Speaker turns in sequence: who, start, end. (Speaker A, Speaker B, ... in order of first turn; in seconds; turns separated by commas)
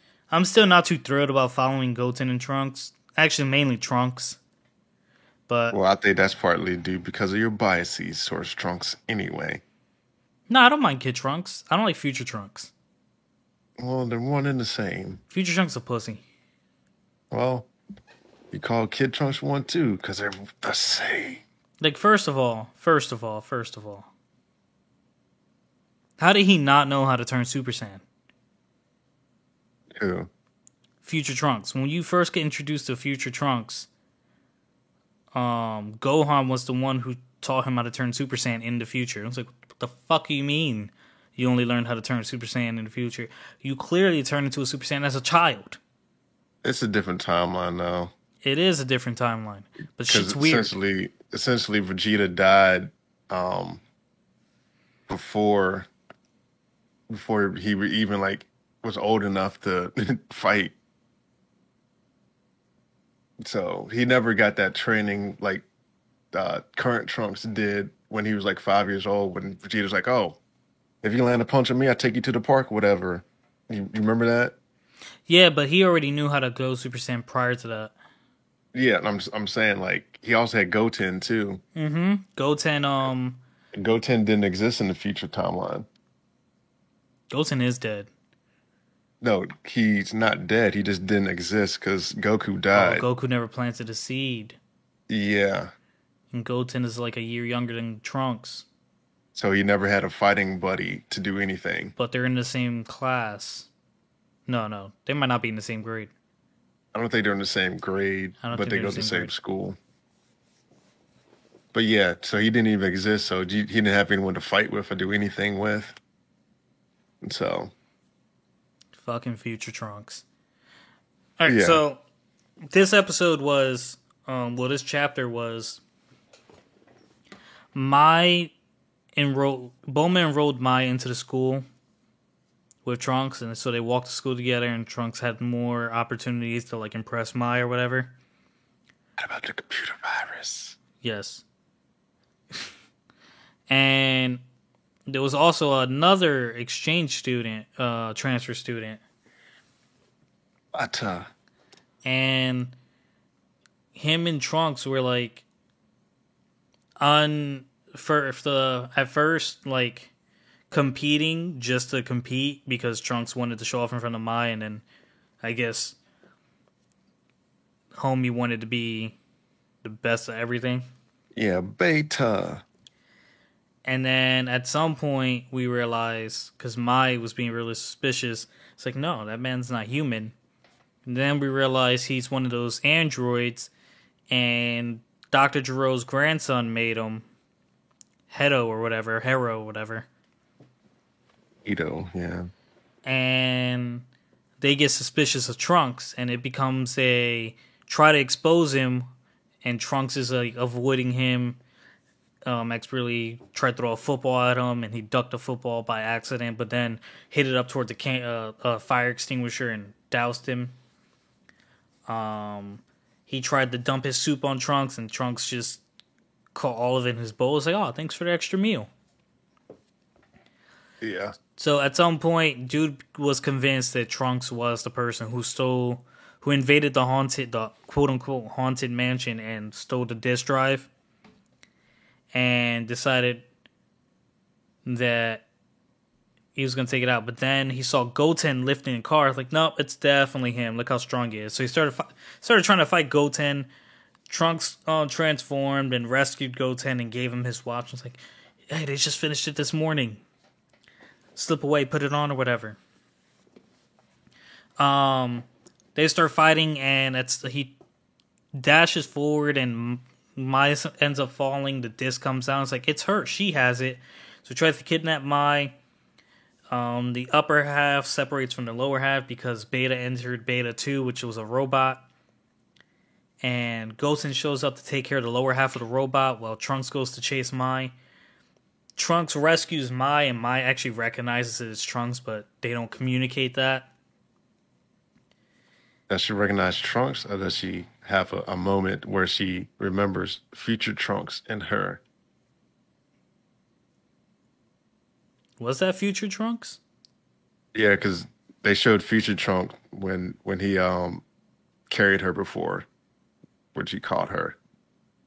Speaker A: 0.3-4.4, Speaker A: 5.5-5.8, Speaker B: 5.7-9.6, Speaker A: 10.5-12.7, Speaker B: 13.8-15.2, Speaker A: 15.3-16.2, Speaker B: 17.3-17.7, Speaker B: 18.5-21.4, Speaker A: 21.8-24.1, Speaker A: 26.2-28.0, Speaker B: 30.0-30.3, Speaker A: 31.0-33.9, Speaker A: 35.3-45.8, Speaker B: 46.6-48.1, Speaker A: 48.4-50.7, Speaker B: 50.0-53.8, Speaker B: 55.1-55.9, Speaker B: 57.1-60.7, Speaker B: 63.4-65.6, Speaker B: 66.3-70.4, Speaker B: 71.0-74.5, Speaker A: 75.3-77.9, Speaker B: 78.7-81.6, Speaker A: 81.7-83.4, Speaker B: 83.7-85.9, Speaker A: 87.3-88.1, Speaker B: 89.2-93.0, Speaker A: 92.7-94.6, Speaker B: 95.1-95.7, Speaker A: 96.3-98.7, Speaker B: 99.3-101.9, Speaker A: 102.0-103.7, Speaker A: 104.5-106.1, Speaker B: 106.9-109.8, Speaker A: 108.4-109.3, Speaker B: 111.7-115.9, Speaker B: 117.2-117.7, Speaker A: 119.0-120.2, Speaker A: 121.4-122.0, Speaker B: 121.5-121.8, Speaker A: 122.7-125.8, Speaker A: 127.7-128.5, Speaker A: 129.1-131.6, Speaker A: 132.8-138.1, Speaker B: 139.2-140.8, Speaker A: 141.0-141.4, Speaker A: 143.7-144.4, Speaker A: 145.1-149.0, Speaker B: 150.7-151.3, Speaker A: 152.0-152.7, Speaker A: 153.9-155.4, Speaker A: 157.0-160.1, Speaker A: 160.7-164.8, Speaker A: 165.4-166.0, Speaker A: 167.9-169.2, Speaker A: 169.8-170.8, Speaker B: 171.3-172.6, Speaker A: 173.8-180.3, Speaker A: 181.1-183.7, Speaker A: 184.3-187.2, Speaker A: 188.3-190.1, Speaker B: 191.6-192.5, Speaker A: 193.0-194.0, Speaker A: 194.6-199.1, Speaker A: 199.6-201.6, Speaker A: 202.4-210.7, Speaker A: 212.1-215.8, Speaker A: 216.5-218.9, Speaker B: 221.0-221.3, Speaker A: 221.6-230.9, Speaker A: 232.3-233.4, Speaker A: 234.8-235.4, Speaker A: 236.6-243.7, Speaker A: 244.3-250.2, Speaker A: 251.3-252.8, Speaker A: 254.8-257.8, Speaker A: 258.5-265.8, Speaker A: 266.7-272.0, Speaker A: 273.4-277.9, Speaker A: 278.9-283.9, Speaker B: 286.1-292.0, Speaker A: 295.6-296.8, Speaker B: 297.7-301.2, Speaker B: 301.9-302.9, Speaker B: 303.7-304.6